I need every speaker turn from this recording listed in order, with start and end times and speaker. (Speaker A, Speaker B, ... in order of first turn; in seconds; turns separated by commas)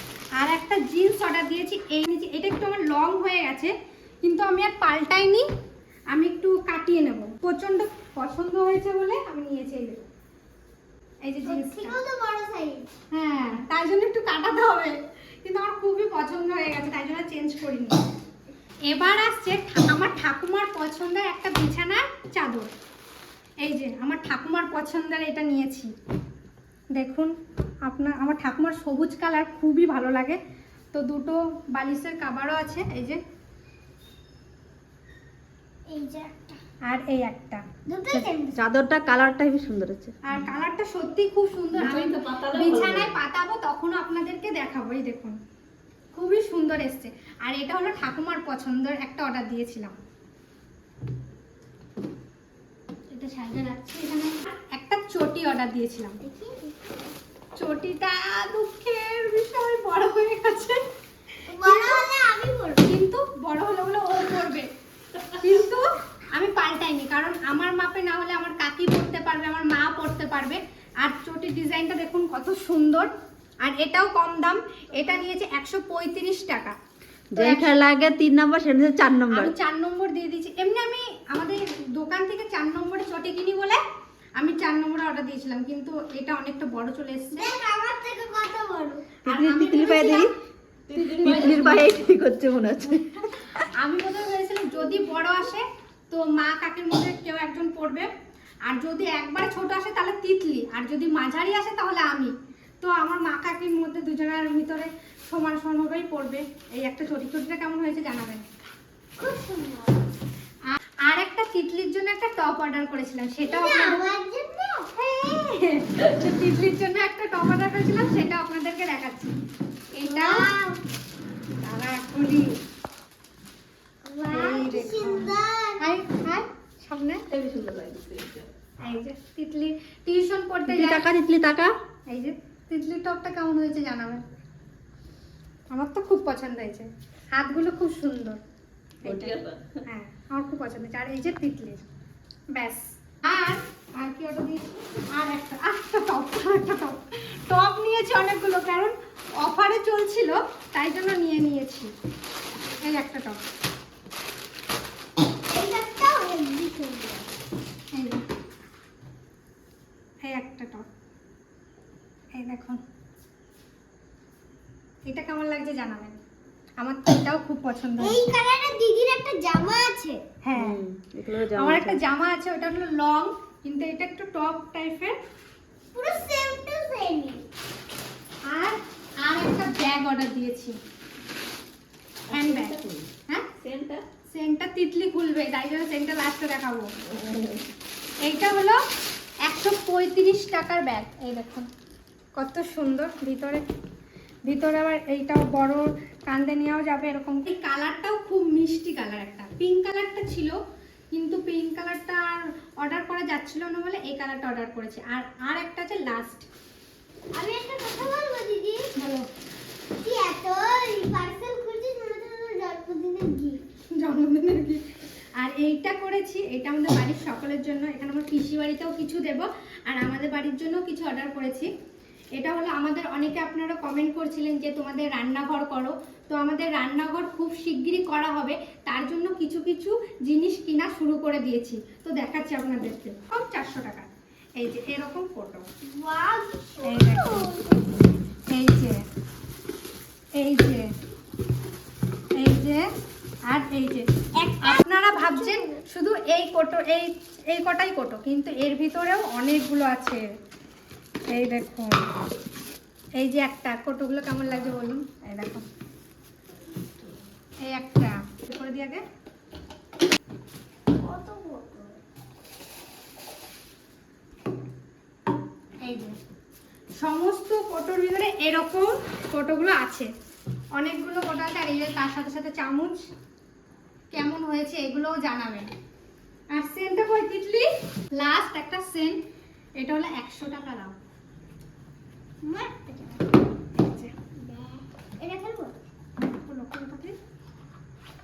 Speaker A: 0.4-3.7, Speaker A: 4.2-5.5, Speaker A: 6.1-10.1, Speaker A: 11.2-11.9, Speaker B: 11.4-12.9, Speaker A: 13.1-18.0, Speaker A: 18.9-22.7, Speaker A: 23.6-25.9, Speaker A: 26.9-27.3, Speaker A: 27.9-30.4, Speaker A: 30.9-33.2, Speaker B: 35.9-36.6, Speaker A: 36.9-37.6, Speaker B: 37.9-38.6, Speaker C: 38.1-40.1, Speaker A: 40.2-45.4, Speaker C: 41.8-43.2, Speaker A: 46.1-49.9, Speaker A: 53.1-56.2, Speaker B: 56.2-56.8, Speaker A: 57.6-60.8, Speaker B: 61.5-62.8, Speaker A: 61.6-62.0, Speaker A: 62.9-64.7, Speaker A: 65.4-73.1, Speaker A: 73.6-76.8, Speaker C: 77.3-79.5, Speaker A: 77.4-77.8, Speaker A: 79.3-83.8, Speaker A: 84.4-87.5, Speaker B: 87.3-89.2, Speaker A: 89.3-90.3, Speaker C: 89.3-90.3, Speaker C: 90.9-93.1, Speaker A: 90.9-91.9, Speaker A: 93.8-98.1, Speaker A: 98.7-108.5, Speaker B: 109.2-110.0, Speaker A: 110.7-114.0, Speaker B: 113.5-114.9, Speaker A: 115.0-119.3, Speaker A: 120.0-120.5, Speaker B: 120.1-120.8, Speaker A: 121.6-122.5, Speaker B: 124.1-125.9, Speaker A: 124.3-127.2, Speaker C: 127.3-128.5, Speaker A: 128.8-131.0, Speaker C: 130.7-131.7, Speaker A: 132.1-134.2, Speaker A: 135.7-138.4, Speaker A: 139.0-141.8, Speaker C: 139.1-139.8, Speaker A: 142.5-151.9, Speaker A: 152.9-153.4, Speaker B: 155.5-157.3, Speaker A: 157.9-158.2, Speaker A: 160.3-160.8, Speaker A: 162.4-162.8, Speaker A: 165.1-166.2, Speaker A: 166.8-168.2, Speaker B: 168.0-170.2, Speaker A: 170.4-170.8, Speaker C: 170.6-172.0, Speaker A: 171.6-175.2, Speaker B: 175.9-177.4, Speaker A: 178.5-180.8, Speaker C: 182.3-183.1, Speaker A: 182.3-182.8, Speaker C: 183.6-184.0, Speaker A: 184.3-186.9, Speaker C: 187.1-187.6, Speaker A: 188.2-188.8, Speaker A: 189.5-191.7, Speaker A: 192.4-193.6, Speaker A: 194.5-200.6, Speaker A: 201.1-206.5, Speaker B: 207.3-208.8, Speaker A: 209.0-209.3, Speaker B: 210.0-213.6, Speaker A: 213.9-214.8, Speaker A: 215.4-221.7, Speaker A: 222.3-235.7, Speaker B: 235.9-237.9, Speaker A: 236.8-237.4, Speaker A: 238.5-239.0, Speaker A: 240.4-240.9, Speaker A: 242.4-242.8, Speaker A: 243.5-250.2, Speaker B: 244.4-245.8, Speaker A: 251.3-252.1, Speaker A: 253.2-255.7, Speaker A: 257.7-259.0, Speaker B: 261.0-262.0, Speaker A: 265.8-266.2, Speaker A: 267.0-270.1, Speaker A: 270.8-273.0, Speaker A: 274.1-275.7, Speaker A: 276.5-279.2, Speaker A: 279.8-281.0, Speaker B: 282.4-283.3, Speaker A: 283.8-284.1, Speaker B: 284.4-285.7, Speaker A: 286.2-287.1